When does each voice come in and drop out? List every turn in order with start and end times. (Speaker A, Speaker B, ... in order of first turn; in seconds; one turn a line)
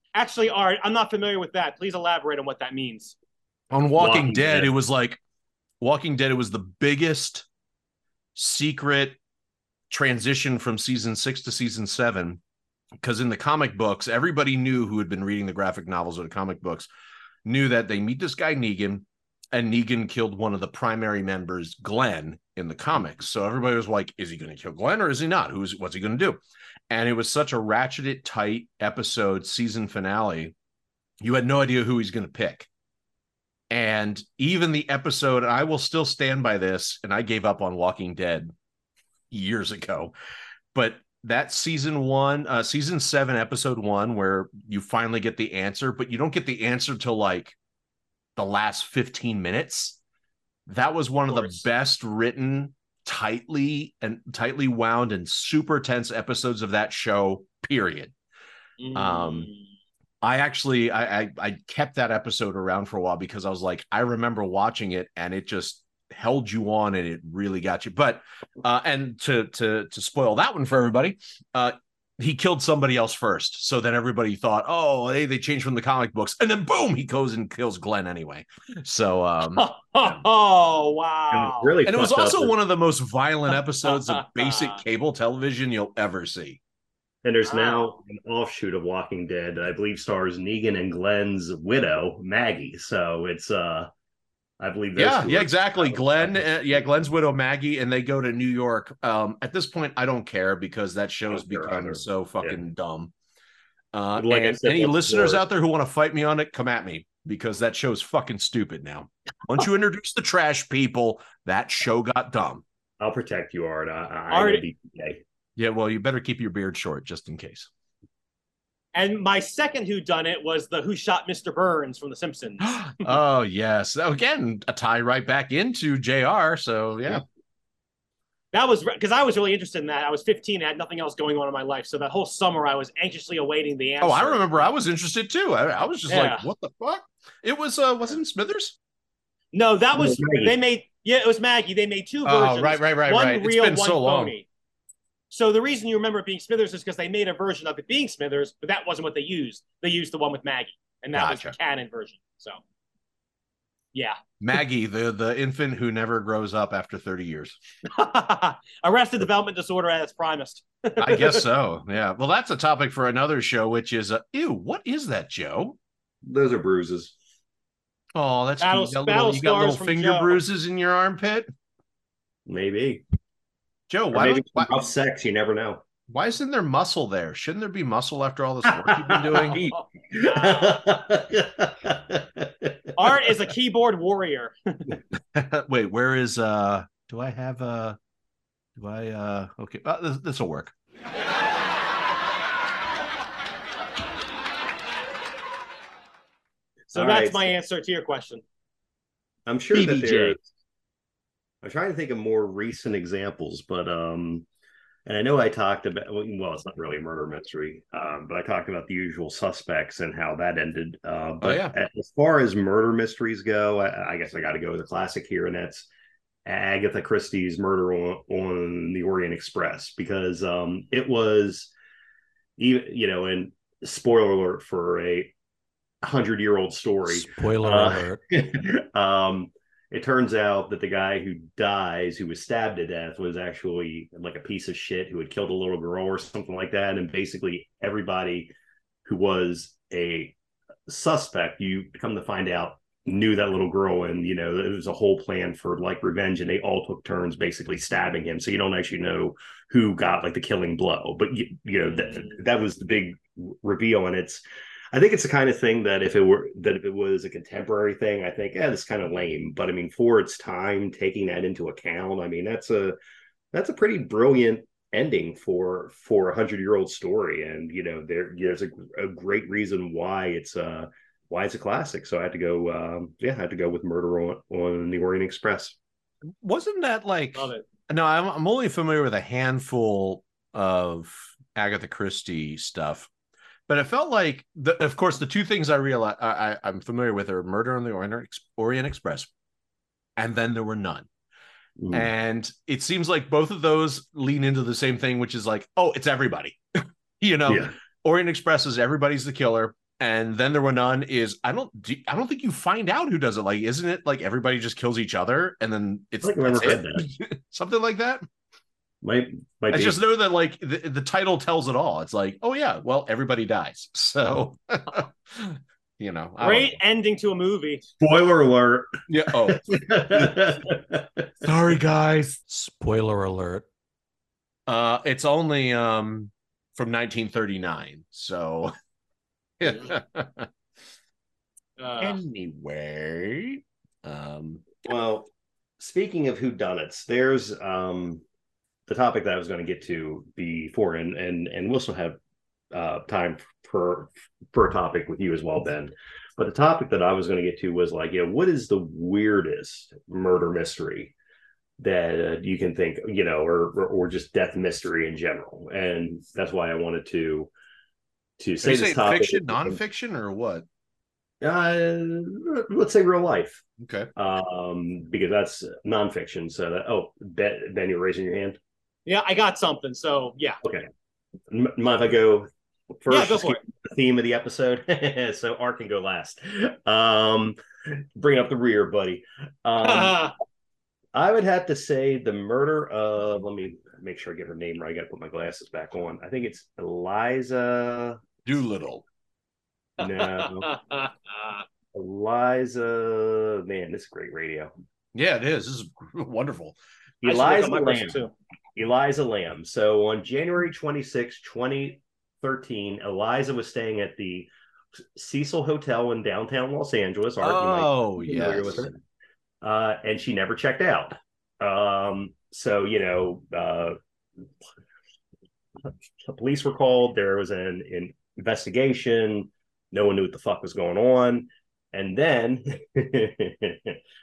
Speaker A: 0.1-3.2
Speaker B: 3.7-5.2
Speaker C: 4.0-4.7
Speaker B: 5.8-7.5
Speaker B: 8.4-9.2
Speaker B: 9.9-12.4
Speaker B: 13.0-16.9
Speaker B: 17.4-30.5
Speaker B: 31.2-32.7
Speaker B: 33.7-38.5
Speaker B: 39.3-40.1
Speaker B: 40.7-47.6
Speaker B: 48.4-50.0
Speaker B: 50.7-58.1
Speaker A: 51.3-51.6
Speaker A: 58.8-59.7
Speaker B: 58.9-59.5
Speaker B: 60.2-80.2
Speaker A: 79.5-81.7
Speaker C: 81.3-82.6
Speaker B: 81.9-86.6
Speaker A: 84.3-84.8
Speaker C: 87.2-93.9
Speaker A: 87.5-87.9
Speaker C: 94.6-96.8
Speaker B: 95.0-103.1
Speaker C: 101.3-102.6
Speaker B: 103.9-112.6
Speaker C: 104.2-105.4
Speaker C: 113.0-115.2
Speaker A: 114.3-114.7
Speaker B: 115.6-117.7
Speaker A: 119.0-123.1
Speaker B: 122.6-127.2
Speaker A: 128.5-134.6
Speaker B: 134.0-138.8
Speaker A: 136.1-136.4
Speaker A: 139.5-144.5
Speaker C: 140.0-140.6
Speaker B: 142.2-144.4
Speaker A: 145.3-152.6
Speaker B: 151.1-151.6
Speaker B: 154.4-157.6
Speaker A: 157.9-161.5
Speaker B: 161.0-165.8
Speaker C: 166.2-167.1
Speaker B: 168.2-171.5
Speaker A: 168.6-170.4
Speaker C: 172.5-173.0
Speaker B: 173.9-174.8
Speaker C: 174.1-175.8
Speaker B: 176.1-179.6
Speaker C: 178.7-183.3
Speaker A: 179.6-180.7
Speaker A: 183.0-184.8
Speaker B: 185.3-188.0
Speaker B: 188.8-190.7
Speaker C: 196.9-197.5
Speaker A: 196.9-198.4
Speaker C: 199.5-200.4
Speaker B: 199.7-200.4
Speaker C: 201.6-204.5
Speaker C: 205.1-215.9
Speaker B: 211.4-211.8
Speaker C: 216.5-221.7
Speaker C: 222.6-225.3
Speaker C: 226.0-238.5
Speaker D: 227.1-228.2
Speaker C: 239.1-240.3
Speaker C: 240.9-263.0
Speaker C: 263.5-275.8
Speaker B: 276.4-283.1
Speaker A: 277.4-277.6
Speaker B: 283.7-289.3
Speaker B: 290.2-291.1
Speaker C: 291.8-292.1
Speaker B: 291.9-296.6
Speaker B: 297.2-308.2
Speaker C: 297.5-297.8
Speaker C: 306.2-307.1
Speaker C: 309.0-310.0
Speaker B: 309.7-316.8
Speaker A: 316.4-317.8
Speaker C: 318.0-321.3
Speaker B: 319.1-320.5
Speaker B: 321.4-322.4
Speaker D: 322.5-323.6
Speaker B: 324.7-328.7
Speaker B: 329.6-330.5
Speaker A: 331.8-332.2
Speaker B: 332.0-334.8
Speaker C: 334.9-335.3
Speaker C: 335.8-338.2
Speaker C: 338.9-342.2
Speaker C: 342.7-351.1
Speaker C: 351.8-357.5
Speaker C: 358.4-359.8
Speaker B: 358.6-360.6
Speaker C: 361.4-363.6
Speaker B: 363.8-364.1
Speaker C: 364.2-368.6
Speaker A: 369.1-370.6
Speaker C: 370.6-370.9
Speaker C: 371.5-372.5
Speaker C: 373.0-377.6
Speaker A: 373.1-373.6
Speaker C: 378.2-380.3
Speaker A: 379.9-380.3
Speaker C: 381.1-388.2
Speaker B: 388.5-389.0
Speaker C: 390.0-390.7
Speaker A: 390.2-391.6
Speaker C: 391.9-394.7
Speaker B: 395.1-396.8
Speaker C: 397.2-398.2
Speaker A: 397.2-398.3
Speaker C: 398.8-404.5
Speaker C: 405.2-409.0
Speaker B: 407.4-408.9
Speaker C: 409.6-414.0
Speaker C: 416.2-424.0